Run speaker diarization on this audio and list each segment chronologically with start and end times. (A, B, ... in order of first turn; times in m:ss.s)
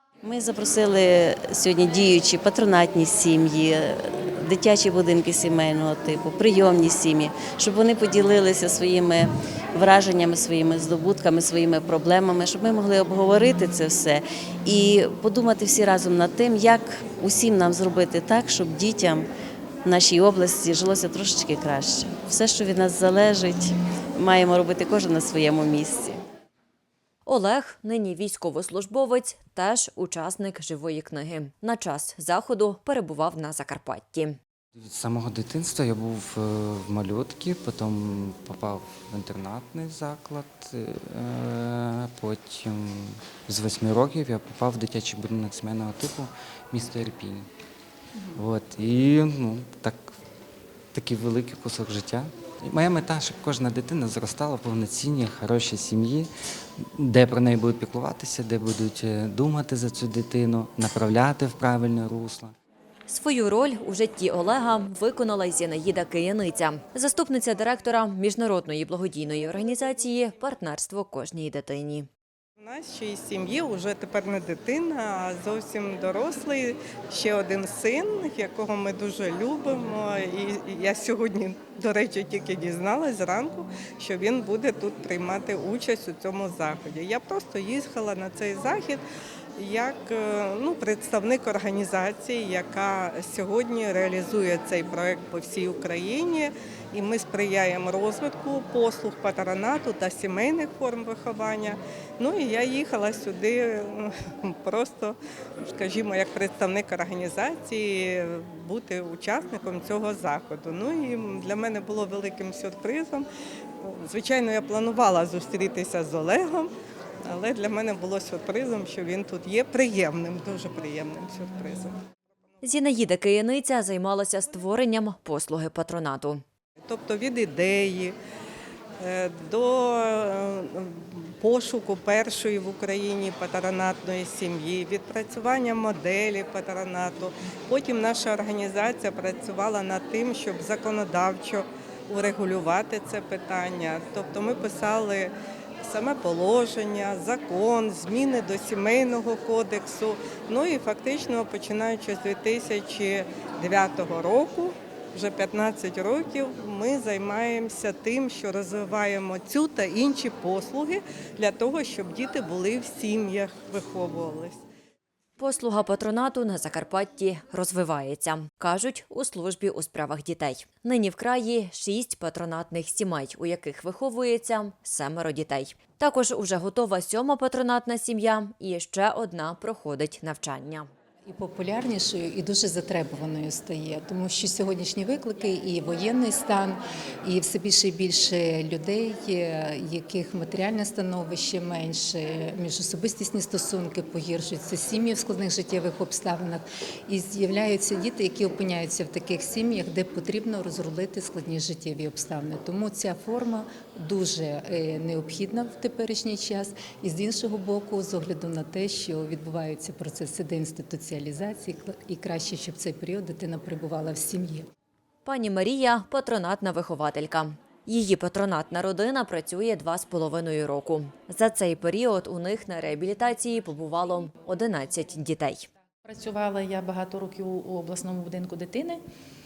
0:00.2-0:19.3 A
0:19.8-0:26.2 A
0:27.2-0:34.4 B
0:34.8-0:47.5 C
0:48.3-0:50.0 C
0:50.9-0:56.3 C
0:56.8-1:02.5 C
1:03.1-1:12.1 B
1:12.6-1:29.0 D
1:29.6-1:53.2 D
1:53.8-1:56.7 D
1:57.2-2:02.0 D
2:02.6-2:06.4 B
2:06.9-2:08.2 D
2:09.0-2:25.3 D
2:25.8-2:44.6 D
2:45.4-3:00.9 B
3:01.2-3:34.7 E
3:35.2-3:45.7 B
3:46.1-3:49.0 F